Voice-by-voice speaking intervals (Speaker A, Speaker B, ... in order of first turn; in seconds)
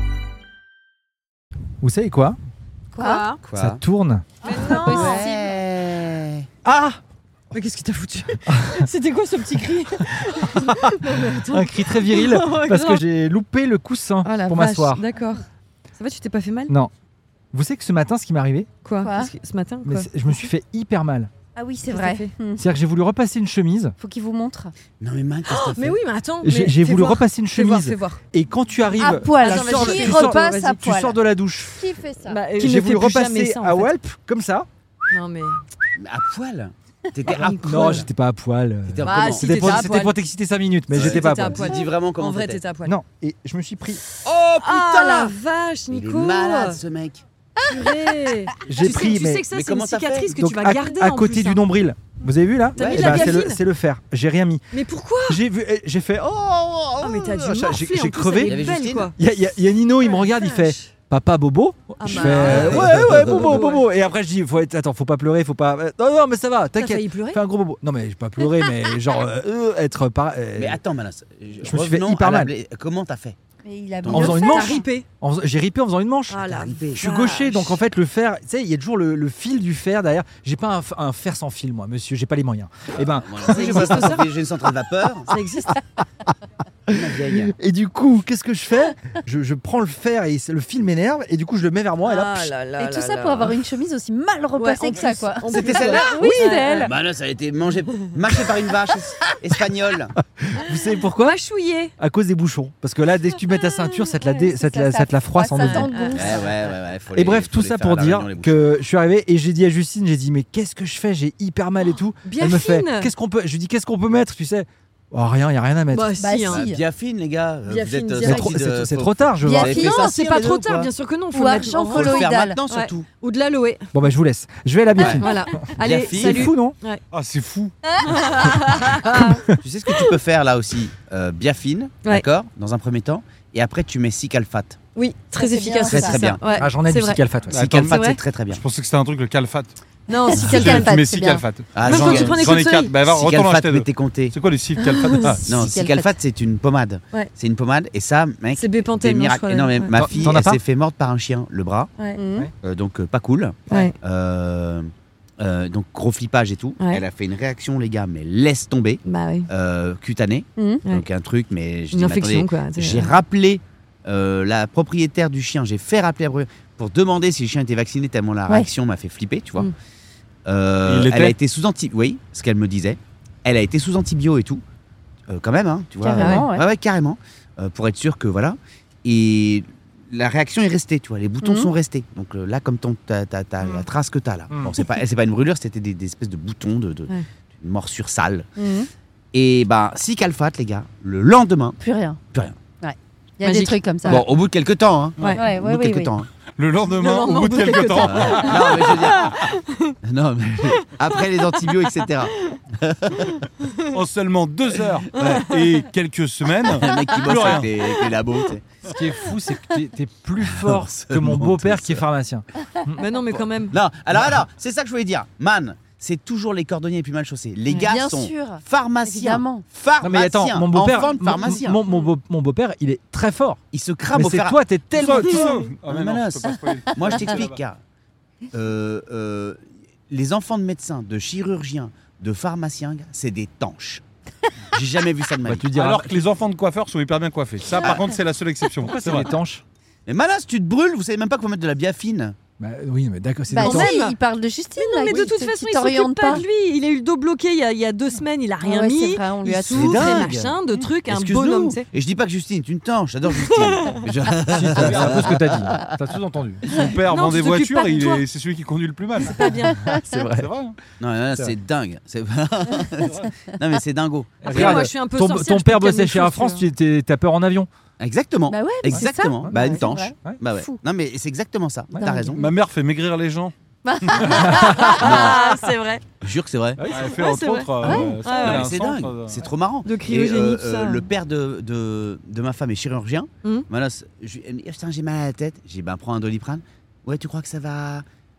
Speaker A: 1.8-2.4, 3.5-4.2, 6.6-7.0, 10.6-15.0, 17.5-18.7, 19.8-21.3, 22.6-23.9, 26.4-31.9, 32.6-34.7, 37.6-41.6, 42.8-44.0, 48.6-49.4, 50.4-54.6, 55.3-56.5, 57.6-58.6, 59.2-70.8, 71.6-72.5, 74.1-84.0, 87.3-92.5, 100.4-101.4, 102.0-105.9, 107.1-116.1, 118.2-119.8, 123.9-126.8, 129.2-129.6, 136.5-137.6, 149.9-150.6, 208.9-213.0, 220.0-223.6, 224.1-225.5, 235.4-236.3, 238.8-239.6, 242.6-243.9, 249.7-250.3, 254.5-256.8, 260.0-260.4, 264.4-267.7, 268.9-270.4, 271.9-272.2, 274.3-274.7, 276.8-277.1
Speaker B: 2.9-3.4, 4.4-5.2, 7.5-13.0, 14.2-15.4, 16.0-16.7, 18.8-20.1, 21.9-22.4, 25.5-28.2, 29.4-30.9, 32.2-33.9, 35.1-35.6, 37.3-38.1, 39.0-40.1, 40.9-42.9, 44.1-46.8, 47.7-51.6, 52.7-53.6, 54.7-55.4, 57.0-59.1, 60.1-60.9, 62.0-63.9, 66.8-67.4, 74.1-75.1, 76.3-77.8, 83.5-84.3, 85.3-85.8, 92.0-93.6, 94.5-96.9, 101.1-101.9, 103.8-104.4, 105.5-106.6, 112.2-113.1, 115.9-116.7, 117.7-118.4, 119.6-123.9, 125.2-127.0, 128.0-129.4, 134.9-137.2, 137.8-138.2, 140.1-140.9, 141.8-142.9, 144.8-145.4, 148.5-150.0, 152.0-152.3, 153.7-153.9, 156.8-157.0, 159.0-159.5, 161.9-163.2, 176.2-176.5, 193.4-194.3, 195.2-195.4, 196.8-199.9, 201.7-202.6, 205.2-205.7, 213.0-213.8, 243.6-244.2, 244.7-251.8, 253.3-254.0, 257.1-258.2, 259.2-259.9, 264.4-266.6, 269.5-269.9, 274.7-276.0, 276.9-278.8, 279.8-281.1
Speaker C: 3.0-3.2, 4.5-5.5, 19.0-19.3, 21.6-22.6, 24.0-24.7, 28.9-31.2, 31.7-32.4, 73.6-74.8, 92.8-96.9, 104.2-106.6, 116.1-116.8, 118.2-118.5, 119.4-120.2, 121.3-122.6, 135.3-136.4, 140.3-141.4, 145.2-146.1, 152.2-152.5, 160.6-160.8, 176.0-176.7, 181.4-181.7, 188.6-188.9, 191.8-192.2, 192.8-194.2, 195.3-196.2, 217.8-219.6, 243.5-246.4, 248.6-250.4, 259.5-260.0, 268.5-270.8, 272.0-272.5, 273.8-275.3, 277.8-278.1
Speaker D: 3.4-3.8, 4.8-6.5, 25.0-26.0, 36.0-38.1, 38.9-39.9, 40.9-42.7, 44.2-45.3, 45.9-47.2, 48.9-50.3, 52.8-53.4, 56.3-57.6, 58.4-59.1, 62.3-63.5, 70.6-73.4, 74.0-74.4, 76.5-77.1, 83.2-85.3, 86.9-87.5, 95.5-96.1, 96.8-100.1, 106.1-108.7, 116.5-120.9, 121.7-123.1, 125.0-125.2, 125.8-126.5, 129.6-134.8, 135.9-136.4, 137.5-138.6, 141.7-142.5, 143.1-144.3, 145.4-151.9, 152.6-169.7, 170.4-174.6, 175.3-188.5, 189.3-191.8, 194.0-196.3, 198.0-199.4, 200.0-203.4, 204.8-205.4, 206.7-208.7, 210.4-212.1, 213.7-221.8, 223.7-227.8, 228.5-234.0, 234.7-235.7, 237.8-238.1, 240.1-242.4, 249.5-250.5, 251.1-255.9, 261.0-264.9, 268.0-272.5, 274.9-275.6, 276.2-276.8, 278.3-288.0
Speaker E: 127.1-127.7, 137.5-139.8, 140.6-145.7, 170.8-171.4, 196.6-198.5, 203.9-207.7, 225.0-227.6, 235.7-239.3, 254.8-255.3, 256.8-259.3, 260.3-260.8, 272.3-274.4, 276.9-279.4